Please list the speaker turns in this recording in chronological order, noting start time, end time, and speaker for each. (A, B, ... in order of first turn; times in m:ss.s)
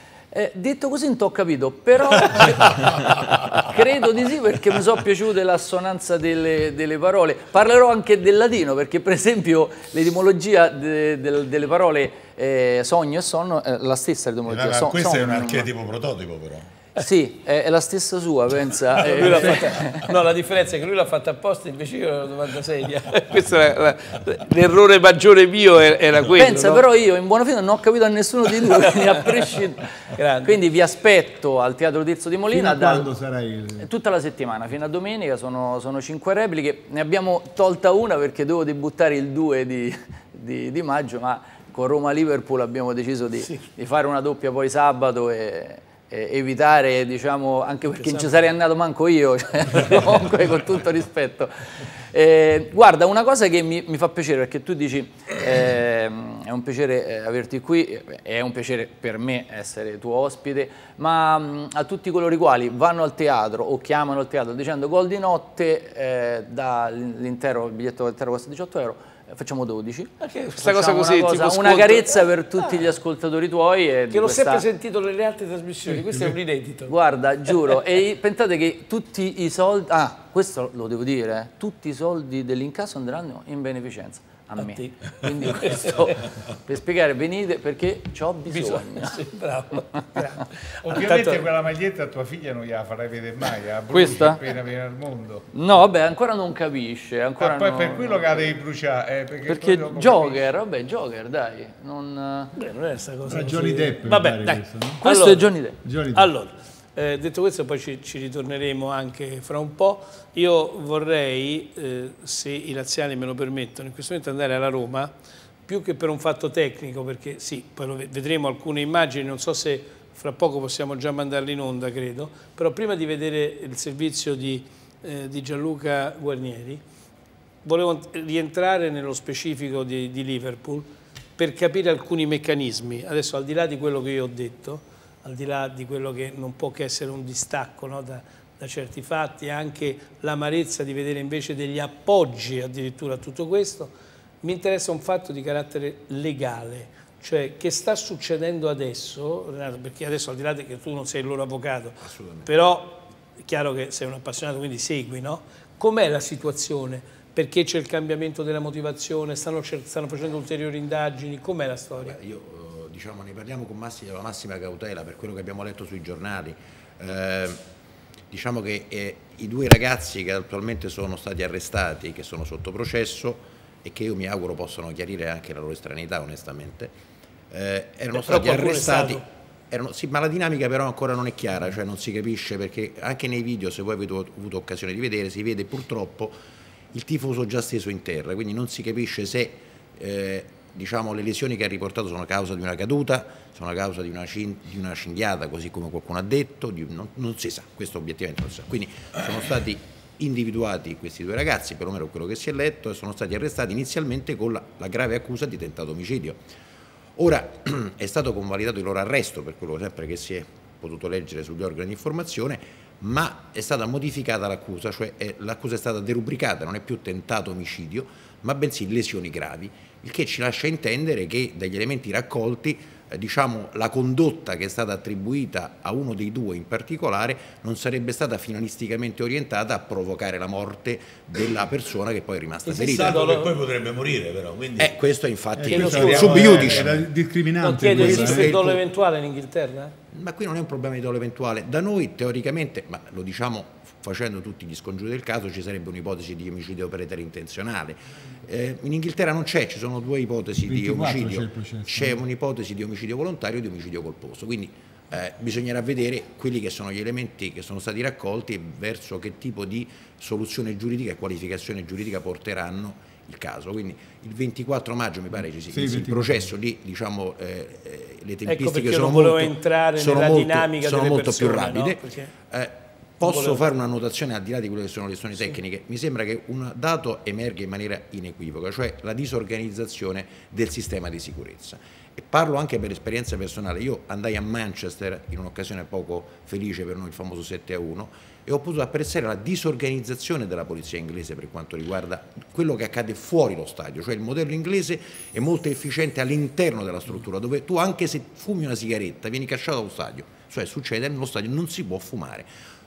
0:00.3-0:15.7 A
0:14.5-0:16.7 B
0:17.0-0:20.1 A
0:19.0-0:26.9 C
0:26.3-0:29.8 A
0:28.8-0:29.4 C
0:30.2-0:30.6 C
0:30.4-0:33.1 A
0:32.5-0:33.9 D
0:33.8-1:14.6 A
0:48.0-0:48.3 C
1:10.2-1:12.3 C
1:14.1-1:17.0 C
1:16.9-1:29.2 A
1:24.6-1:26.2 C
1:28.5-1:31.4 C
1:30.8-1:35.5 E
1:33.9-1:34.4 A
1:35.5-1:38.6 A
1:37.4-1:40.5 E
1:39.4-1:42.5 A
1:42.6-1:45.6 C
1:43.3-1:45.0 D
1:45.0-1:45.8 A
1:45.8-1:46.3 D
1:46.1-1:55.1 C
1:55.7-2:06.8 C
2:07.6-2:42.2 C
2:32.0-2:32.5 F
2:42.0-2:47.6 F
2:48.3-2:57.0 F
2:57.5-3:06.4 F
2:58.1-2:59.2 C
3:06.9-3:26.4 F
3:27.2-3:53.2 F
3:52.6-3:53.6 C
3:52.7-3:55.0 B
3:54.8-3:57.0 F
3:55.6-3:58.6 D
3:55.7-3:57.1 B
3:55.7-3:56.8 C
3:57.6-4:00.0 C
3:57.9-3:58.8 F
4:00.1-5:02.5 F
4:10.6-4:12.2 D
4:25.7-4:26.5 D
4:28.5-4:32.3 C
4:33.2-4:33.6 C